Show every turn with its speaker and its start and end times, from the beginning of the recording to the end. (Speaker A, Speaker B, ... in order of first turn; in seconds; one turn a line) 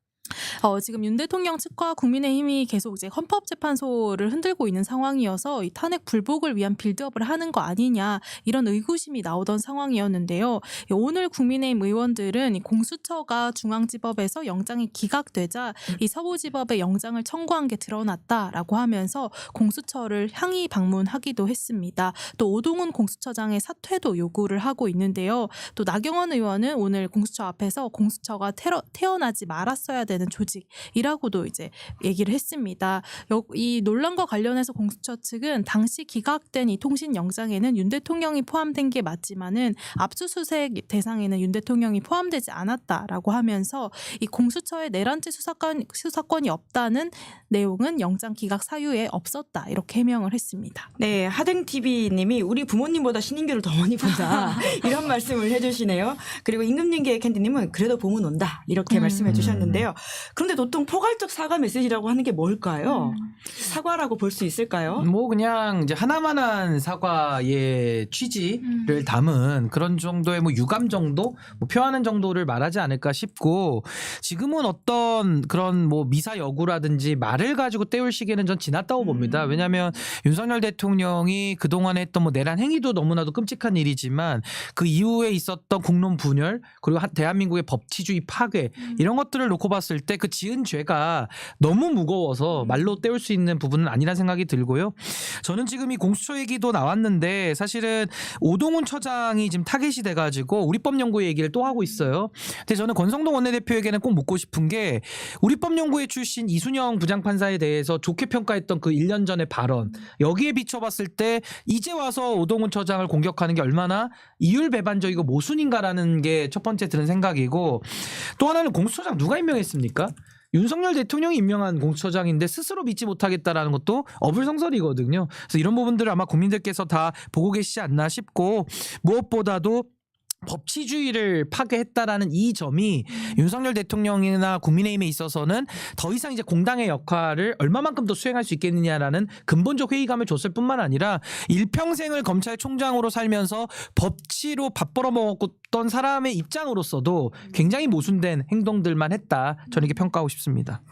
Speaker A: 0.3-50.9
Speaker B: 51.0-65.1
Speaker A: 54.0-54.7
Speaker A: 58.9-59.5
Speaker C: 59.3-59.9
Speaker A: 62.9-63.3
Speaker C: 65.0-129.9
Speaker A: 68.6-69.0
Speaker B: 79.0-79.6
Speaker C: 130.4-150.8